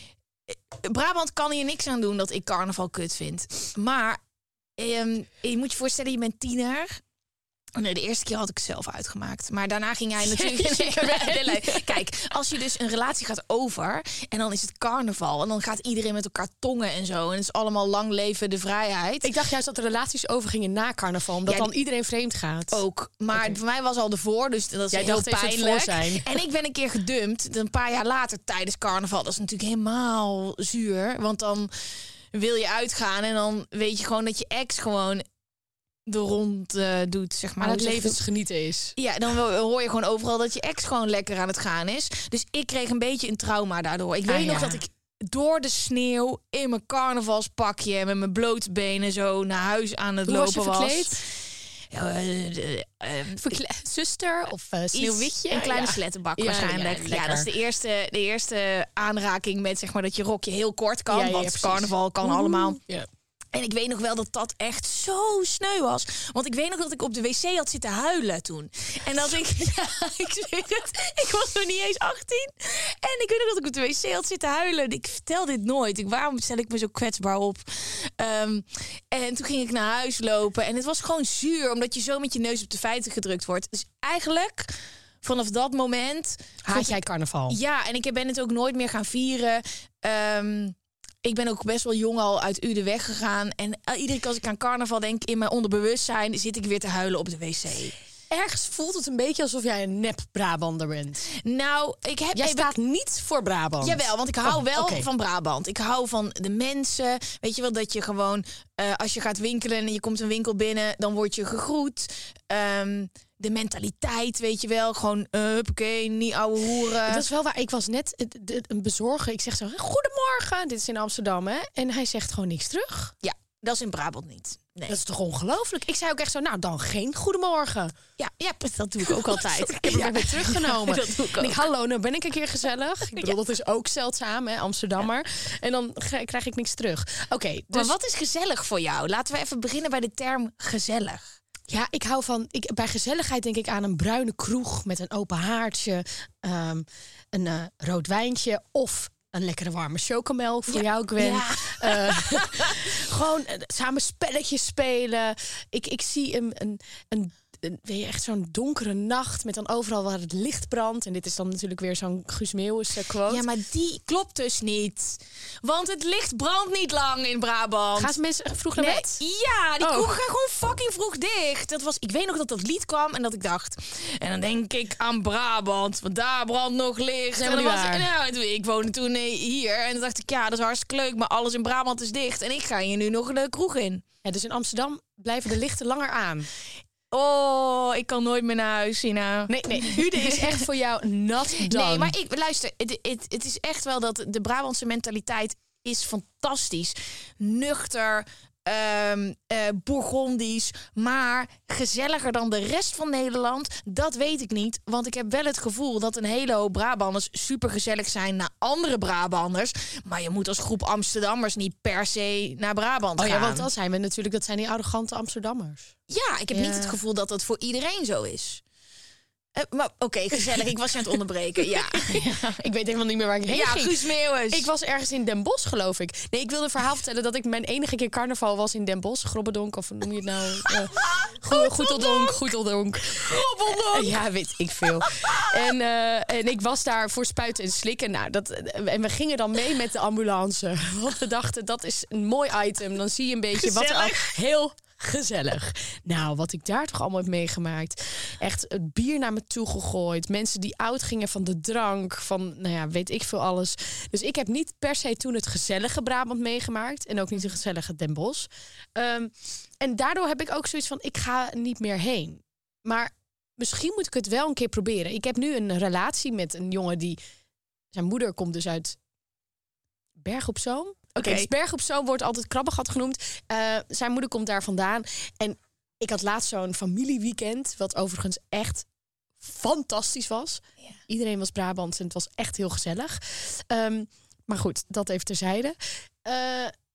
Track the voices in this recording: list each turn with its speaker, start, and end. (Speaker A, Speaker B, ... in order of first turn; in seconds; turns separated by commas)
Speaker A: 0.5-4.2, Speaker A: 4.8-7.0, Speaker A: 7.8-19.3, Speaker B: 10.2-12.0, Speaker B: 19.2-22.8, Speaker A: 21.4-21.7, Speaker A: 22.7-31.7, Speaker B: 23.3-23.6, Speaker B: 24.9-26.3, Speaker A: 32.3-35.2, Speaker A: 36.1-38.2, Speaker B: 37.6-39.0, Speaker A: 39.0-51.2, Speaker B: 44.2-44.9, Speaker B: 50.3-51.2, Speaker A: 51.9-53.5, Speaker B: 53.4-57.5, Speaker A: 54.9-62.8, Speaker B: 61.1-63.1, Speaker A: 63.5-97.9, Speaker B: 86.7-87.6, Speaker B: 98.3-101.3, Speaker A: 101.4-102.7, Speaker B: 102.3-105.1, Speaker A: 103.8-117.2, Speaker B: 117.0-123.1, Speaker A: 123.2-124.9, Speaker B: 124.9-127.9, Speaker A: 128.2-131.6, Speaker B: 129.1-137.9, Speaker A: 137.7-141.3, Speaker B: 141.7-163.4, Speaker A: 150.7-152.9, Speaker A: 163.3-168.1, Speaker B: 167.9-169.2, Speaker A: 168.8-184.0, Speaker B: 169.8-170.1, Speaker B: 177.3-178.1, Speaker B: 184.2-186.5, Speaker A: 187.1-190.6, Speaker B: 189.5-192.1, Speaker A: 191.7-213.7, Speaker B: 213.2-215.9, Speaker A: 216.1-218.6, Speaker B: 216.5-217.0, Speaker A: 219.6-222.6, Speaker B: 220.4-220.6, Speaker B: 221.6-267.2, Speaker A: 223.5-224.6, Speaker A: 230.9-232.4, Speaker A: 233.3-234.2, Speaker A: 235.0-235.5, Speaker A: 243.5-244.3, Speaker B: 267.9-268.9, Speaker B: 270.2-278.8, Speaker A: 271.2-271.5, Speaker B: 279.4-286.7